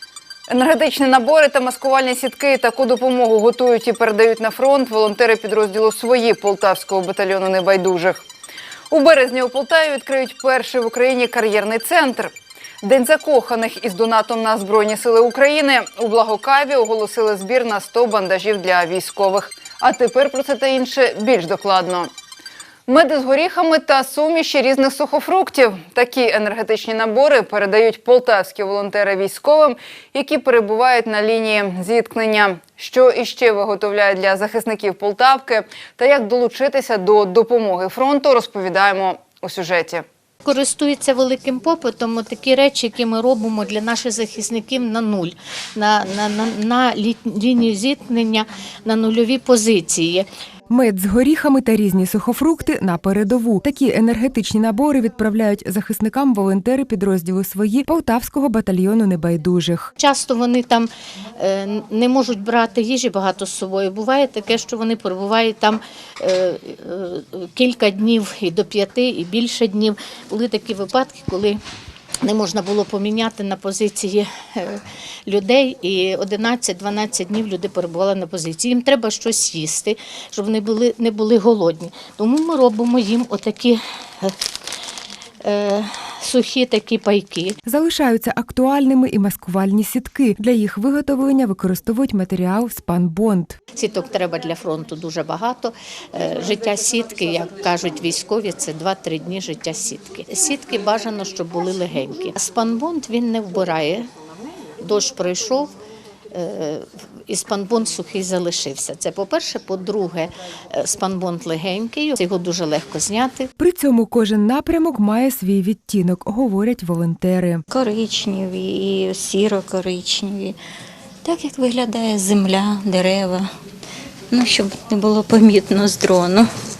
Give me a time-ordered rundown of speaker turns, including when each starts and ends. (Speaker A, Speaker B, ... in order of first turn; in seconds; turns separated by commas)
Speaker A: 0.5-8.2, Speaker A: 8.9-22.1, Speaker A: 22.9-40.0, Speaker B: 40.4-50.2, Speaker C: 50.7-59.9, Speaker B: 60.0-71.6, Speaker B: 72.2-84.3, Speaker B: 85.4-87.6, Speaker C: 87.6-93.6, Speaker B: 93.7-104.0, Speaker B: 104.8-105.7, Speaker B: 106.3-113.5, Speaker C: 113.6-117.6, Speaker D: 117.7-120.6, Speaker D: 121.2-123.5, Speaker D: 124.3-126.5